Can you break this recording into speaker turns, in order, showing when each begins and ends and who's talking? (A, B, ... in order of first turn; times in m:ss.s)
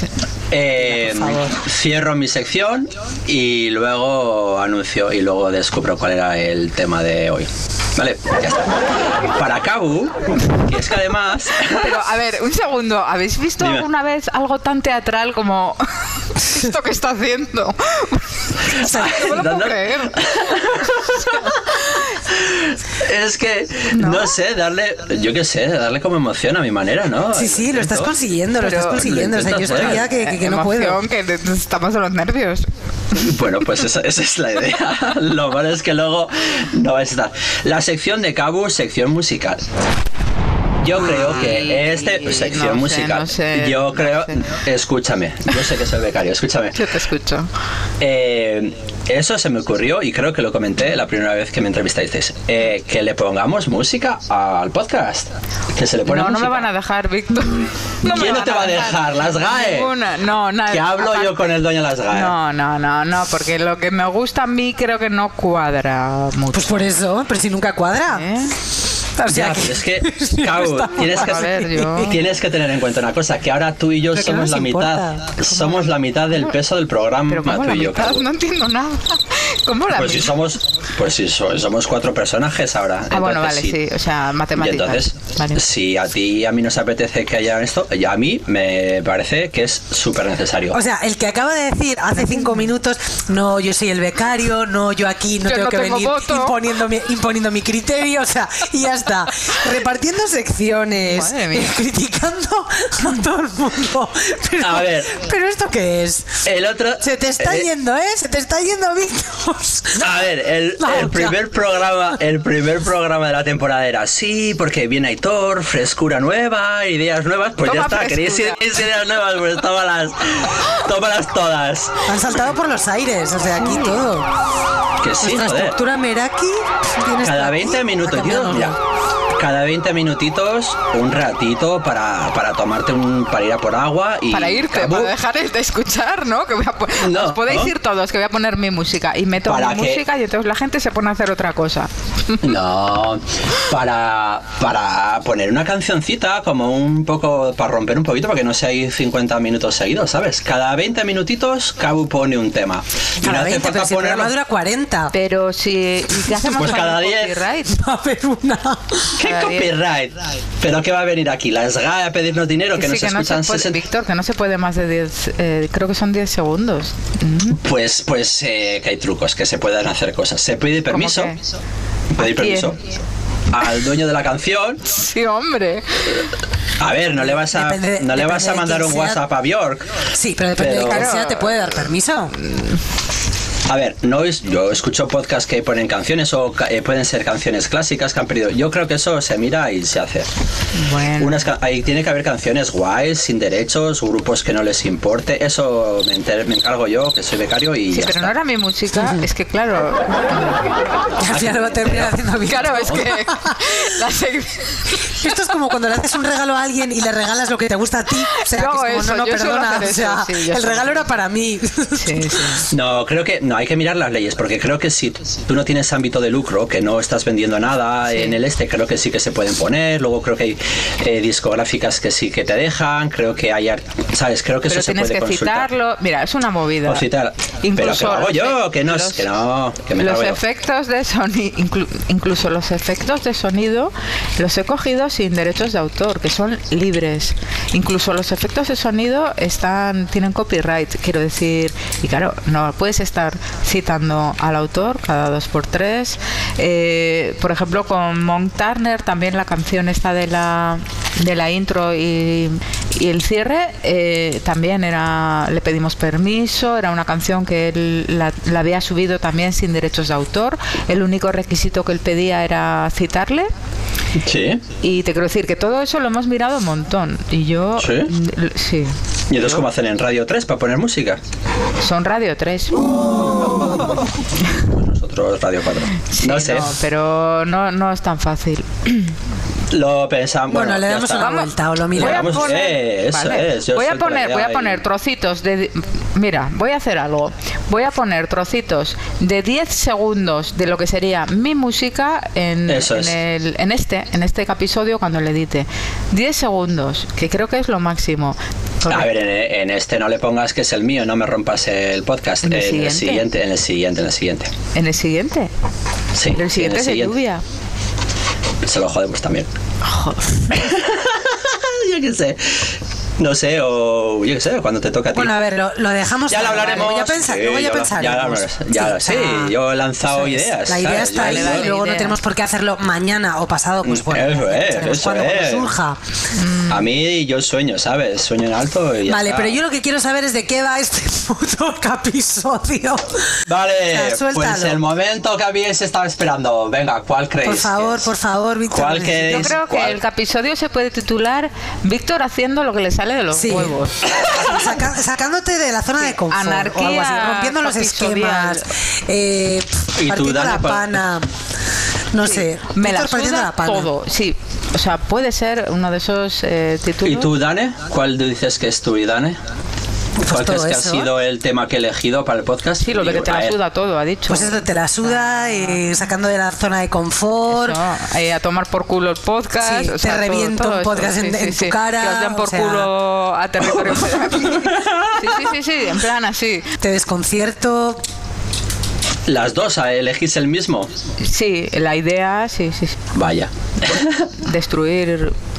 0:00.5-0:12.0 A
0:00.8-0:01.6 B
0:11.6-0:22.1 C
0:13.6-0:13.9 A
0:18.7-0:28.2 A
0:18.8-0:19.2 B
0:23.9-0:24.3 C
0:27.3-0:31.0 B
0:28.6-0:29.0 C
0:28.8-0:30.1 A
0:29.8-0:32.7 C
0:33.1-0:39.6 A
0:40.8-0:46.8 A
0:41.2-0:44.5 C
0:46.8-0:47.5 C
0:48.0-0:56.7 A
0:56.0-1:01.5 C
0:58.0-0:59.9 A
1:00.7-1:02.4 A
1:02.1-1:06.9 C
1:06.5-1:08.4 B
1:08.1-1:08.6 C
1:09.2-1:12.2 B
1:09.3-1:18.3 A
1:11.0-1:12.2 C
1:14.1-1:15.4 B
1:17.3-1:20.4 C
1:19.9-1:23.8 A
1:23.1-1:25.6 C
1:24.6-1:30.8 A
1:30.7-1:46.4 B
1:35.5-1:36.6 C
1:41.0-1:41.7 C
1:44.6-1:45.1 A
1:46.4-1:47.7 A
1:47.0-1:50.2 B
1:50.0-2:02.1 A
1:50.8-1:51.4 B
1:57.6-1:58.6 C
2:02.1-2:04.3 B
2:03.6-2:04.0 C
2:05.0-2:05.8 A
2:05.2-2:08.8 B
2:07.2-2:08.8 A
2:09.3-2:15.1 A
2:14.3-2:22.4 C
2:17.0-2:17.7 A
2:19.5-2:20.0 A
2:22.4-2:34.3 A
2:33.2-2:35.1 B
2:35.1-2:37.8 C
2:36.4-2:37.4 A
2:37.7-2:39.2 B
2:39.2-2:43.8 A
2:39.2-2:39.7 C
2:42.8-2:47.6 C
2:47.6-2:51.3 A
2:50.9-2:51.4 C
2:52.1-2:52.8 A
2:52.2-2:52.8 C
2:53.5-2:54.8 A
2:54.8-2:56.3 C
2:56.8-3:01.6 A
2:57.4-2:59.2 B
3:00.1-3:02.4 B
3:00.9-3:01.5 C
3:02.4-3:02.8 C
3:03.7-3:10.3 A
3:10.7-3:11.5 C
3:11.2-3:18.4 A
3:17.9-3:20.6 C
3:18.9-3:19.2 B
3:21.2-3:23.8 B
3:21.3-3:23.2 A
3:22.4-3:25.2 C
3:25.1-3:32.6 B
3:28.2-3:31.0 C
3:32.0-3:32.7 C
3:32.7-3:45.7 A
3:38.1-3:38.4 C
3:44.7-3:47.1 C
3:46.9-3:50.4 A
3:47.6-3:49.3 C
3:50.0-4:23.5 C
4:24.2-4:24.6 A
4:24.8-4:29.7 C
4:27.8-4:28.1 A
4:29.3-4:31.2 A
4:31.8-4:33.3 C
4:34.5-4:36.7 A
4:36.0-4:39.2 C
4:39.7-4:41.4 A
4:40.5-4:42.4 B
4:41.2-4:59.1 C
4:41.9-4:44.8 A
4:52.7-4:53.2 A
4:58.9-5:04.5 A
5:02.4-5:03.2 C
5:04.8-5:05.5 C
5:06.1-5:07.2 A
5:06.3-5:07.4 C
5:08.6-5:09.5 A
5:09.8-5:10.5 C
5:10.5-5:15.4 A
5:15.1-5:19.6 B
5:16.3-5:21.7 A
5:20.1-5:26.0 B
5:21.0-5:22.2 C
5:23.8-5:25.7 A
5:26.3-5:26.9 C
5:26.7-5:29.6 A
5:29.1-5:34.8 B
5:33.5-5:38.1 A
5:37.4-5:39.6 B
5:38.7-5:40.0 A
5:39.3-5:44.1 C
5:43.3-5:51.3 B
5:44.1-5:44.7 A
5:46.0-5:48.7 C
5:50.0-5:51.1 A
5:52.1-5:53.9 B
5:52.2-5:57.3 C
5:57.0-5:59.4 A
6:00.2-6:01.1 B
6:00.2-6:03.6 A
6:02.8-6:05.9 C
6:04.3-6:07.8 B
6:07.5-6:16.7 C
6:09.6-6:12.9 B
6:14.3-6:15.4 A
6:16.8-6:18.0 B
6:19.3-6:20.9 A
6:21.2-6:23.0 C
6:23.1-6:24.3 A
6:24.4-6:25.4 C